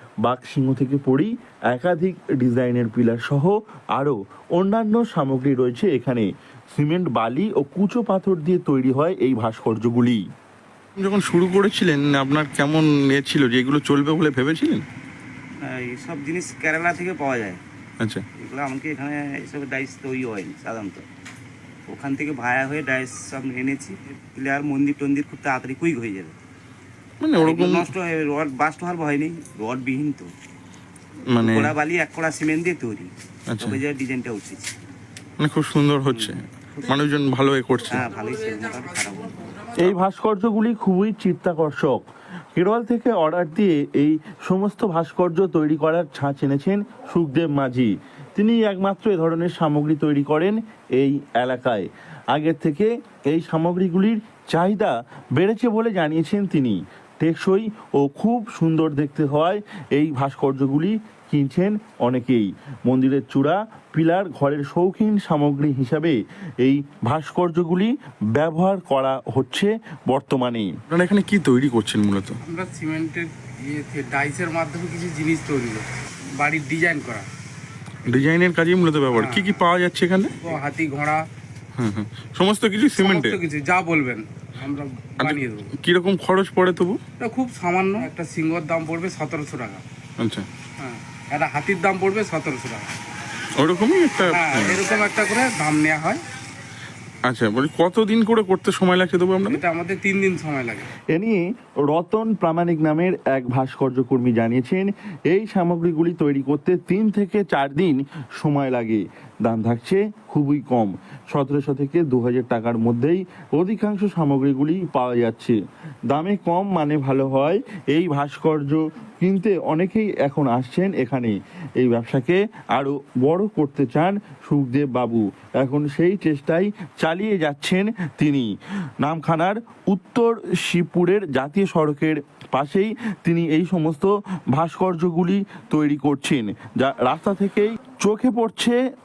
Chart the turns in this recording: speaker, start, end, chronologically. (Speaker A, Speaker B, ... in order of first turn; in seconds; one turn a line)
Speaker A: 0.2-10.2
Speaker B: 11.0-14.9
Speaker C: 15.6-17.6
Speaker C: 18.4-21.1
Speaker C: 21.9-26.4
Speaker B: 27.2-27.9
Speaker C: 27.4-30.3
Speaker B: 31.3-31.8
Speaker C: 31.4-34.7
Speaker B: 33.5-33.8
Speaker B: 35.4-38.0
Speaker C: 36.1-36.9
Speaker C: 37.9-39.5
Speaker D: 38.0-40.0
Speaker A: 39.8-42.0
Speaker A: 42.5-70.7
Speaker B: 70.9-72.4
Speaker D: 72.4-77.3
Speaker B: 78.1-80.3
Speaker D: 79.1-79.6
Speaker D: 80.4-81.2
Speaker B: 81.8-83.4
Speaker D: 83.0-85.7
Speaker B: 85.2-87.0
Speaker D: 87.2-89.8
Speaker B: 90.2-90.5
Speaker D: 90.8-92.9
Speaker B: 93.6-94.8
Speaker D: 94.2-96.2
Speaker B: 97.2-99.6
Speaker D: 99.5-100.9
Speaker A: 101.1-115.6
Speaker A: 116.1-138.8